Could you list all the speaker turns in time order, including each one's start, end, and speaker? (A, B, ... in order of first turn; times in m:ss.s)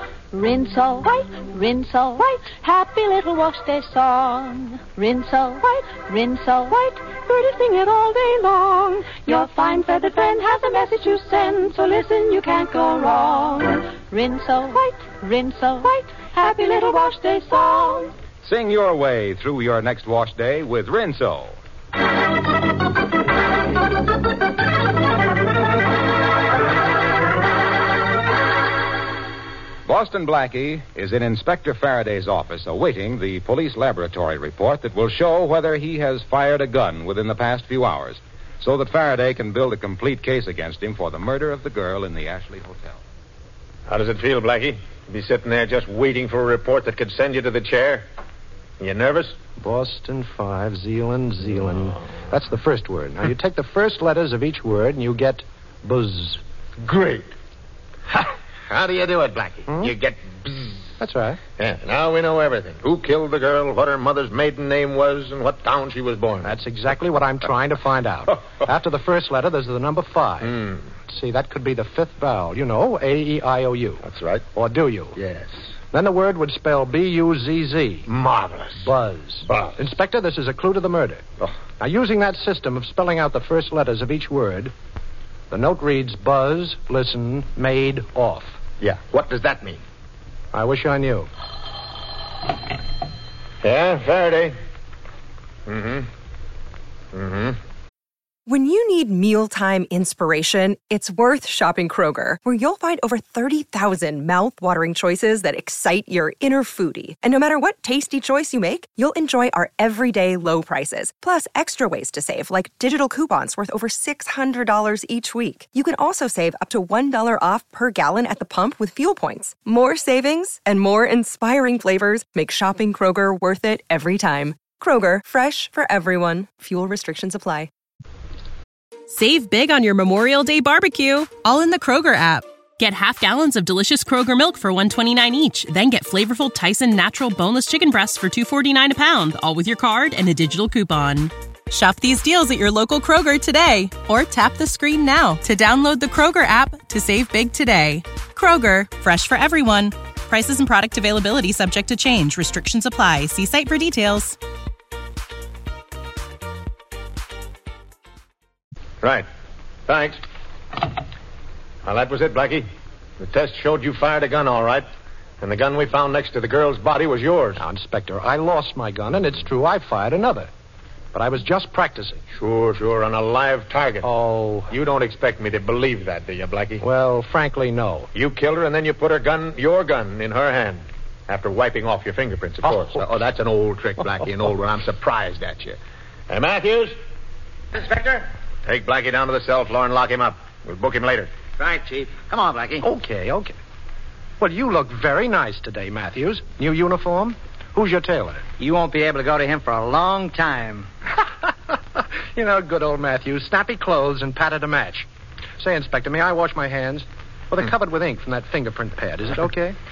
0:00.3-0:18.1 A
0:18.4-0:21.6 B
0:29.8-0:43.0 B
0:43.9-0:48.0 C
0:48.8-0:49.4 C
0:49.6-0:56.4 D
0:56.8-0:57.3 C
0:58.1-1:00.8 C
1:01.0-1:01.4 D
1:01.6-1:06.5 C
1:06.4-1:14.0 D
1:10.4-1:10.8 C
1:14.0-1:14.4 C
1:14.5-1:15.2 D
1:15.9-1:18.1 D
1:18.1-1:18.8 C
1:18.8-1:21.2 D
1:19.5-1:19.7 C
1:21.8-1:24.7 D
1:25.5-1:28.6 D
1:28.8-1:29.8 C
1:30.5-1:31.3 D
1:33.6-1:34.5 C
1:35.6-1:36.1 C
1:37.1-1:37.6 C
1:38.5-2:07.7 E
2:09.1-2:34.3 F
2:39.9-2:40.2 C
2:41.8-2:42.6 C
2:43.2-2:44.8 C
2:45.4-2:47.6 C
2:47.6-2:50.5 D
2:51.1-2:52.2 D
2:52.4-2:54.0 C
2:54.0-2:54.7 D
2:54.7-2:56.8 C
2:56.8-2:58.1 D
2:58.1-3:05.8 C
3:02.6-3:03.0 D
3:06.3-3:06.9 C
3:07.7-3:08.2 G
3:08.6-3:11.3 C
3:11.6-3:12.8 G
3:12.8-3:13.6 D
3:14.4-3:18.4 D
3:18.6-3:20.9 G
3:22.0-3:25.1 D
3:25.6-3:29.8 D